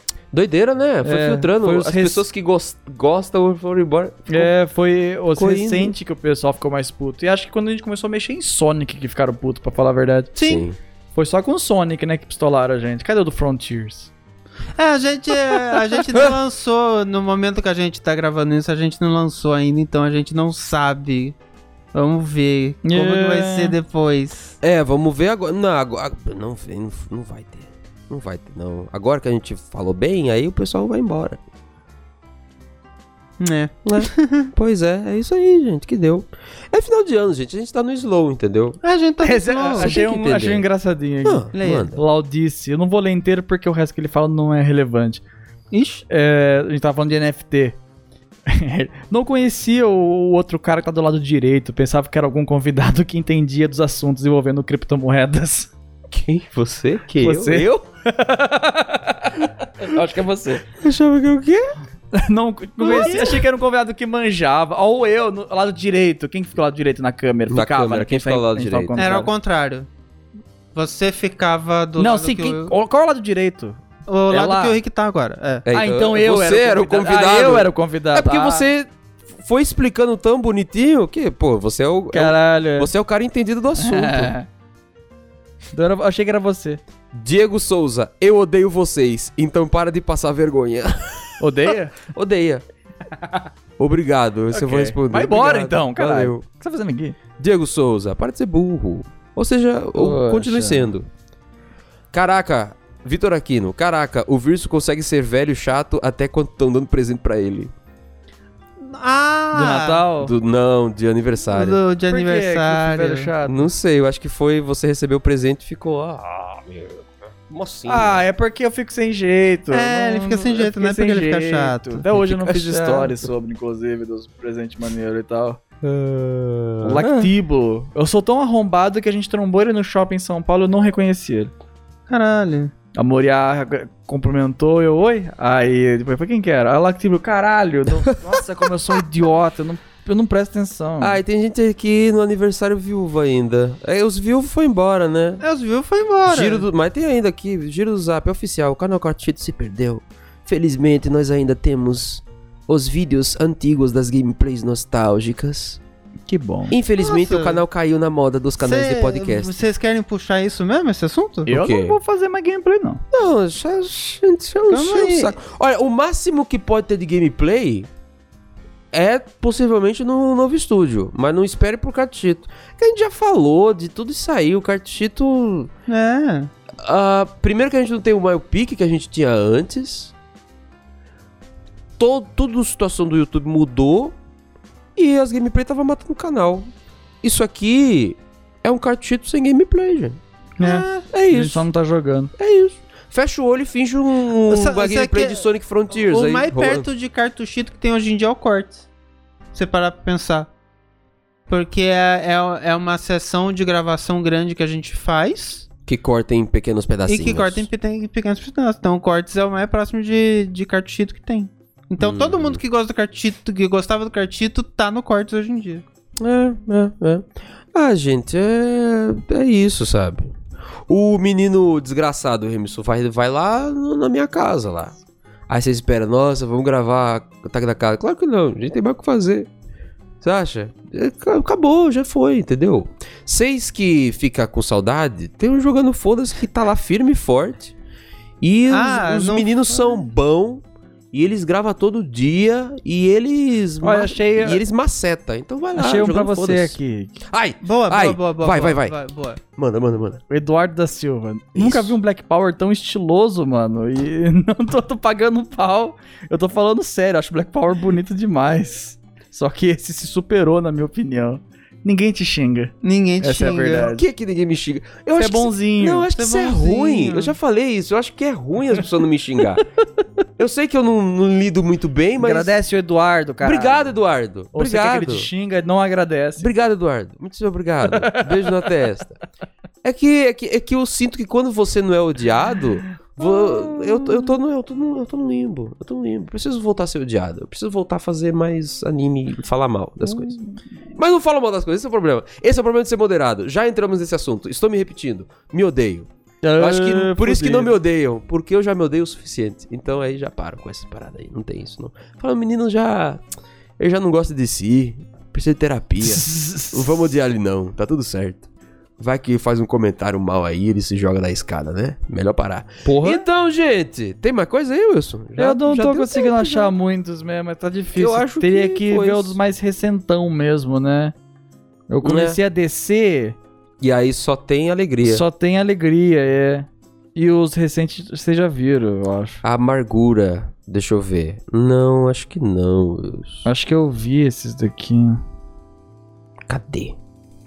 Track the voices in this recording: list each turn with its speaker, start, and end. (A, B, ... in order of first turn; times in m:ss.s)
0:00.3-0:04.5 A
0:01.0-0:02.2 B
0:04.3-0:10.3 B
0:05.3-0:05.9 A
0:10.3-0:10.6 C
0:10.4-0:10.8 A
0:11.1-0:14.1 B
0:14.8-0:21.4 C
0:21.9-0:24.6 C
0:22.8-0:23.8 B
0:24.6-0:31.4 A
0:33.4-0:34.5 C
0:33.8-0:38.8 A
0:38.8-0:40.2 C
0:39.2-0:45.2 B
0:39.7-0:40.6 A
0:41.2-0:42.0 A
0:41.5-0:41.9 C
0:45.7-0:46.0 C
0:46.1-0:47.8 B
0:48.5-0:55.7 B
0:56.1-0:57.8 A
0:57.2-1:00.6 B
1:00.7-1:01.7 A
1:02.1-1:09.3 B
1:02.8-1:03.4 C
1:02.9-1:03.2 A
1:07.5-1:09.0 A
1:09.0-1:09.9 C
1:10.7-1:12.7 C
1:12.0-1:14.8 B
1:14.1-1:15.6 C
1:15.6-1:24.3 A
1:15.7-1:18.7 B
1:22.1-1:22.9 B
1:23.8-1:24.5 B
1:25.7-1:26.8 B
1:27.1-1:32.6 A
1:31.4-1:32.0 B
1:33.2-1:33.4 B
1:33.8-1:36.4 A
1:34.5-1:37.2 B
1:37.4-1:41.1 A
1:39.9-1:40.9 B
1:42.1-1:47.7 A
1:48.8-1:50.1 C
1:49.5-1:50.3 B
1:50.2-1:51.8 A
1:51.5-1:53.3 C
1:52.1-1:53.7 B
1:53.4-1:58.2 A
1:57.8-2:05.6 B
1:59.7-2:02.0 C
2:02.1-2:03.3 A
2:05.8-2:07.3 A
2:06.8-2:11.5 B
2:12.1-2:12.7 C
2:12.9-2:21.2 B
2:21.0-2:25.4 A
2:25.4-2:26.6 C
2:26.2-2:35.8 A
2:36.3-2:36.7 B
2:36.7-2:39.6 A
2:37.0-2:37.6 C
2:38.6-2:41.5 C
2:41.5-2:42.0 A
2:41.5-2:43.0 B
2:43.1-2:47.9 A
2:44.7-2:45.3 C
2:48.9-2:55.7 A
2:55.9-2:56.5 C
2:56.8-3:00.1 A
3:02.0-3:04.2 A
3:05.0-3:06.7 A
3:07.2-3:10.2 A
3:10.6-3:12.3 B
3:10.6-3:11.0 C
3:11.1-3:11.7 A
3:12.4-3:16.9 A
3:14.5-3:18.8 C
3:19.5-3:20.5 C
3:21.5-3:25.7 C
3:25.8-3:27.7 A
3:27.1-3:35.8 C
3:32.0-3:32.6 A
3:36.2-3:40.3 A
3:40.9-3:44.9 A
3:45.5-3:49.5 A
3:50.2-3:57.7 A
3:58.4-4:09.0 A
3:58.7-4:00.0 C
4:03.8-4:04.6 B
4:05.7-4:07.2 B
4:07.6-4:09.4 C
4:09.5-4:10.2 A
4:10.3-4:24.0 B
4:11.5-4:12.0 A
4:22.8-4:23.9 C
4:23.8-4:29.6 A
4:25.1-4:26.1 B
4:26.1-4:27.4 C
4:30.4-4:32.5 A
4:32.2-4:33.9 B
4:33.4-4:35.3 A
4:34.5-4:36.5 B
4:36.4-4:39.2 A
4:37.8-4:38.8 B
4:39.8-4:50.4 A
4:43.2-4:44.2 B
4:50.0-4:50.5 B
4:50.9-5:03.2 A
4:56.4-4:57.7 B
5:03.8-5:08.5 A
5:06.0-5:07.0 B
5:09.0-5:16.7 A
5:12.8-5:13.2 B
5:15.4-5:21.1 B
5:17.9-5:19.4 A
5:21.9-5:23.4 B
5:22.0-5:22.4 A
5:23.8-5:25.2 A
5:25.0-5:29.4 B
5:29.4-5:33.4 A
5:33.4-5:35.2 B
5:36.5-5:37.0 A